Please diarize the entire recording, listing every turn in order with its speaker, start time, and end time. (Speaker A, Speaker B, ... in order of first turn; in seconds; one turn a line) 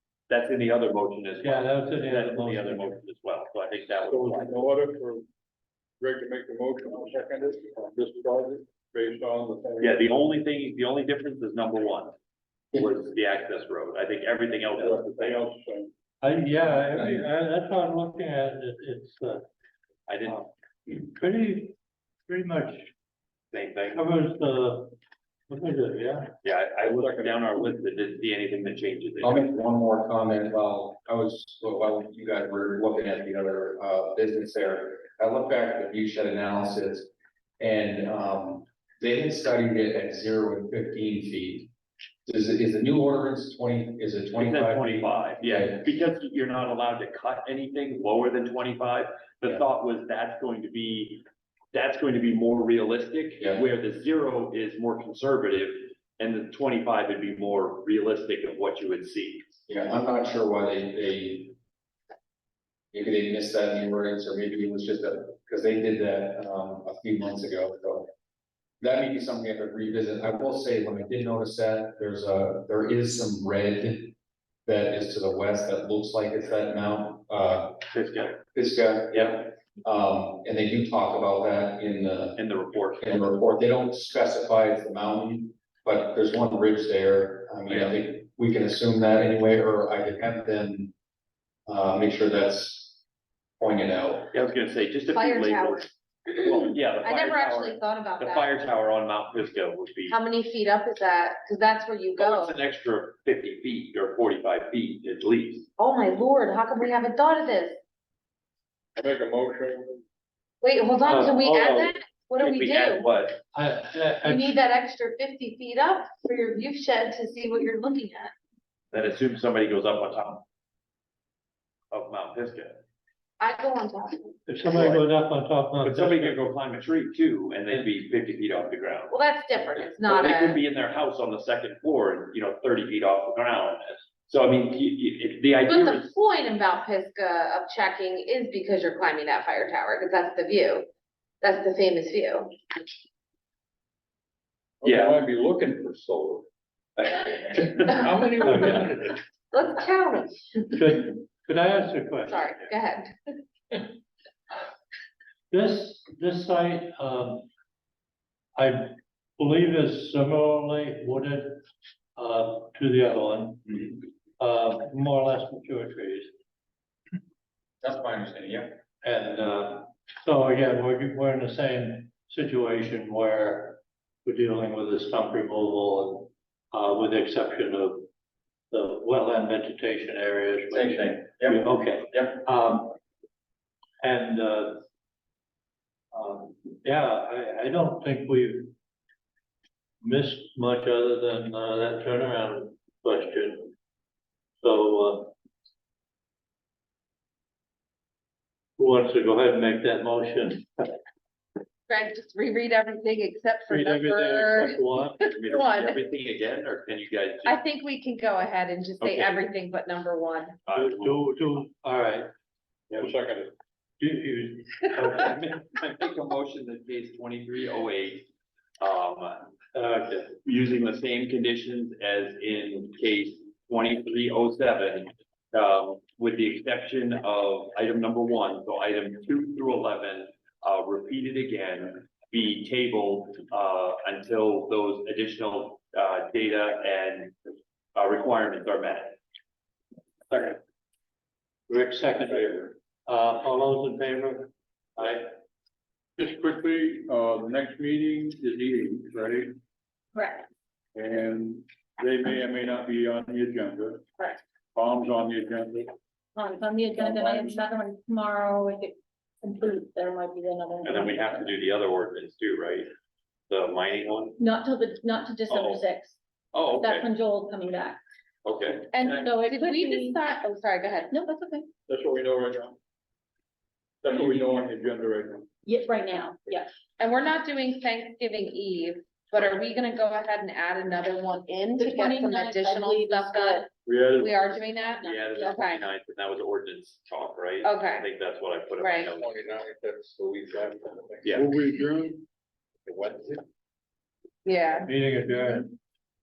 Speaker A: 0.3-4.7
Speaker B: 1.4-3.0
Speaker C: 4.0-5.2
Speaker C: 6.0-10.3
Speaker A: 9.8-12.1
Speaker A: 12.7-15.5
Speaker C: 14.7-15.9
Speaker B: 16.2-19.4
Speaker A: 20.1-20.4
Speaker B: 20.2-21.7
Speaker B: 22.3-22.9
Speaker A: 23.5-24.0
Speaker B: 23.9-24.9
Speaker B: 25.5-26.3
Speaker A: 26.4-29.5
Speaker C: 26.8-27.5
Speaker D: 29.2-41.7
Speaker D: 42.2-45.9
Speaker A: 44.3-59.5
Speaker D: 59.7-61.5
Speaker D: 62.9-68.1
Speaker D: 68.8-74.1
Speaker D: 74.7-77.8
Speaker A: 77.9-78.4
Speaker D: 78.5-82.4
Speaker A: 79.1-79.4
Speaker A: 82.3-83.2
Speaker D: 83.0-90.9
Speaker A: 87.7-88.0
Speaker D: 91.7-93.0
Speaker D: 93.6-94.3
Speaker A: 94.3-100.2
Speaker E: 95.1-98.5
Speaker E: 100.1-102.5
Speaker A: 102.2-105.7
Speaker E: 105.8-107.8
Speaker C: 109.0-110.0
Speaker E: 110.6-113.1
Speaker B: 111.0-111.9
Speaker A: 112.4-113.4
Speaker B: 113.5-114.5
Speaker E: 114.2-118.3
Speaker A: 118.9-120.4
Speaker A: 121.9-122.8
Speaker E: 123.4-124.4
Speaker B: 124.5-126.4
Speaker A: 124.7-125.0
Speaker A: 125.8-129.1
Speaker E: 129.1-130.6
Speaker A: 129.7-136.1
Speaker E: 135.7-140.9
Speaker E: 141.4-142.5
Speaker C: 144.8-146.5
Speaker A: 144.8-145.2
Speaker C: 147.9-149.1
Speaker B: 148.4-148.9
Speaker E: 149.5-150.7
Speaker B: 150.7-152.5
Speaker E: 152.3-153.1
Speaker B: 155.5-157.5
Speaker B: 158.6-161.6
Speaker B: 162.2-166.3
Speaker D: 167.8-168.8
Speaker B: 169.0-178.1
Speaker B: 178.7-182.9
Speaker D: 180.7-182.3
Speaker B: 184.0-184.8
Speaker B: 186.1-188.7
Speaker B: 190.0-193.7
Speaker B: 194.6-195.3
Speaker B: 198.8-200.9
Speaker E: 201.9-206.0
Speaker B: 203.7-205.2
Speaker A: 205.2-207.6
Speaker E: 207.4-210.6
Speaker A: 209.0-209.4
Speaker A: 210.6-211.2
Speaker B: 210.7-212.3
Speaker C: 212.9-213.5
Speaker B: 214.0-215.4
Speaker A: 215.1-218.3
Speaker A: 218.8-219.5
Speaker B: 219.7-220.3
Speaker A: 220.3-237.3
Speaker A: 237.9-239.2
Speaker C: 240.3-240.6
Speaker B: 241.7-245.2
Speaker C: 246.2-249.6
Speaker F: 250.1-250.5
Speaker C: 250.9-254.0
Speaker C: 254.7-255.9
Speaker F: 256.3-261.4
Speaker C: 256.9-257.6
Speaker A: 260.8-262.9
Speaker A: 263.5-264.4
Speaker F: 264.4-266.2
Speaker A: 265.5-265.8
Speaker A: 266.5-267.1
Speaker F: 266.7-268.0
Speaker A: 268.4-269.0
Speaker F: 268.9-270.2
Speaker E: 268.9-271.1
Speaker F: 271.1-271.7
Speaker C: 271.9-272.8
Speaker C: 274.0-275.5
Speaker F: 274.1-274.4
Speaker F: 275.6-276.7
Speaker E: 277.0-283.7
Speaker F: 281.8-283.7
Speaker C: 283.8-284.6
Speaker E: 284.2-285.9
Speaker F: 284.8-285.6
Speaker A: 285.0-289.3
Speaker E: 287.6-288.1
Speaker E: 288.8-289.1
Speaker D: 289.2-291.2
Speaker A: 291.2-291.5
Speaker C: 291.3-292.2
Speaker E: 294.4-294.9
Speaker B: 294.8-295.7